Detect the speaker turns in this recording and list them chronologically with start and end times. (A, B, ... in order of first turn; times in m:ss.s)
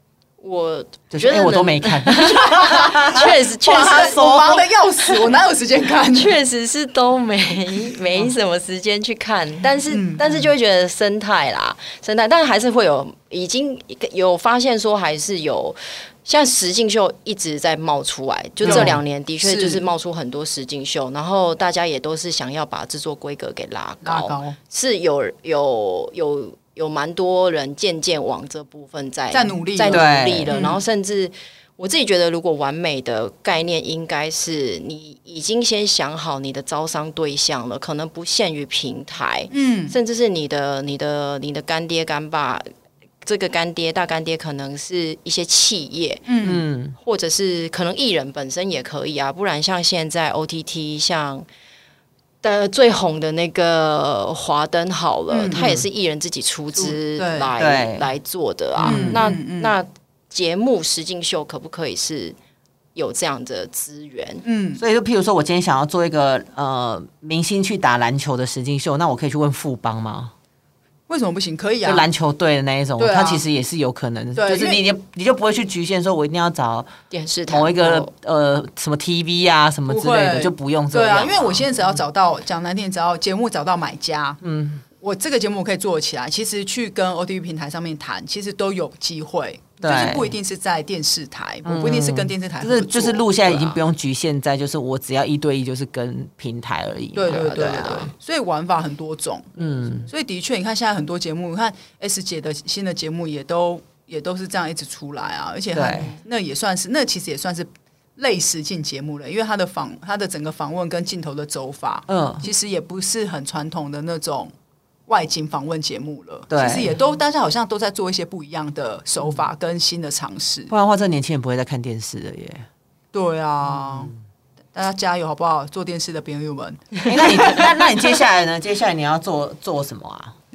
0:00.4-0:04.3 A
0:01.1-0:04.7 B
0:02.5-0:06.4 C
0:06.1-0:42.7 A
0:09.9-0:10.4 C
0:18.6-0:19.8 C
0:18.7-0:18.9 B
0:24.0-0:24.6 C
0:29.3-0:30.8 C
0:29.9-0:30.5 B
0:39.5-0:40.0 C
0:43.2-0:46.3 A
0:46.2-0:46.6 C
0:46.4-0:47.0 B
0:47.0-0:51.4 A
0:52.4-1:02.4 A
0:55.3-0:55.8 C
0:56.8-0:57.5 C
0:57.6-0:58.1 B
0:58.8-0:59.3 B
0:58.8-0:59.7 C
1:02.9-1:04.4 A
1:04.4-1:04.8 C
1:04.8-1:10.3 B
1:11.1-1:12.1 C
1:11.8-1:16.9 B
1:13.0-1:13.4 C
1:14.3-1:14.8 C
1:17.1-1:18.1 A
1:17.5-1:21.8 B
1:19.9-1:24.4 C
1:24.4-1:24.8 B
1:25.0-1:33.8 C
1:29.8-1:30.3 B
1:31.6-1:38.1 B
1:37.1-1:39.5 C
1:37.3-1:38.0 A
1:39.6-1:40.1 B
1:40.1-1:54.5 C
1:45.7-1:46.1 B
1:52.1-1:52.5 B
1:55.1-2:00.7 C
1:56.5-1:56.9 B
2:00.7-2:02.7 B
2:03.1-2:04.1 C
2:04.7-2:07.7 C
2:07.0-2:10.3 B